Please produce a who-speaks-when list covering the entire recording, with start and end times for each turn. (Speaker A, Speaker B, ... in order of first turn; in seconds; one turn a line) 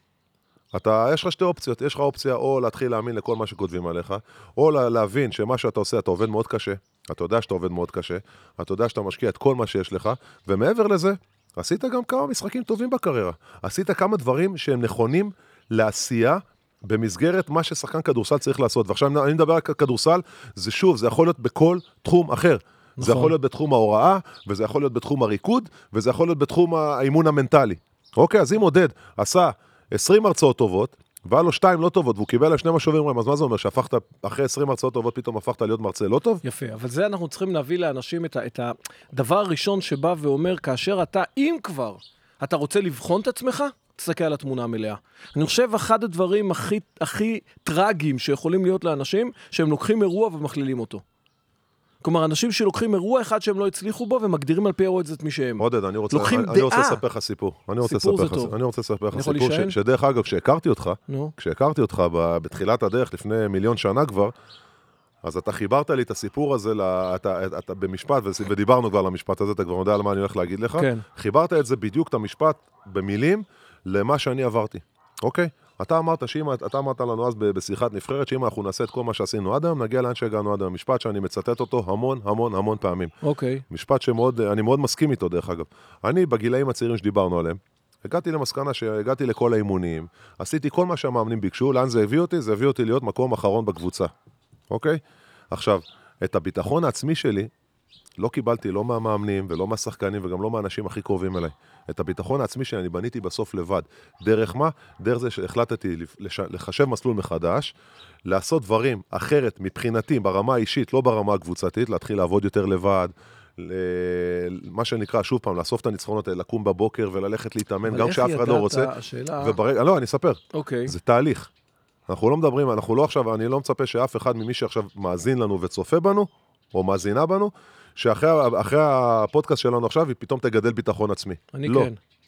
Speaker A: 0.7-36.4
Speaker B: 23.0-23.3
Speaker B: 36.4-51.0
Speaker B: 52.0-57.0
Speaker A: 55.6-64.3
Speaker B: 57.8-58.5
Speaker B: 59.1-59.8
Speaker B: 61.1-61.3
Speaker A: 65.2-83.1
Speaker B: 70.8-71.0
Speaker B: 83.2-83.6
Speaker A: 83.7-94.1
Speaker A: 94.7-97.5
Speaker A: 98.2-107.7
Speaker A: 108.2-121.5
Speaker B: 117.9-119.6
Speaker B: 120.5-120.9
Speaker A: 122.1-131.9
Speaker B: 131.5-132.0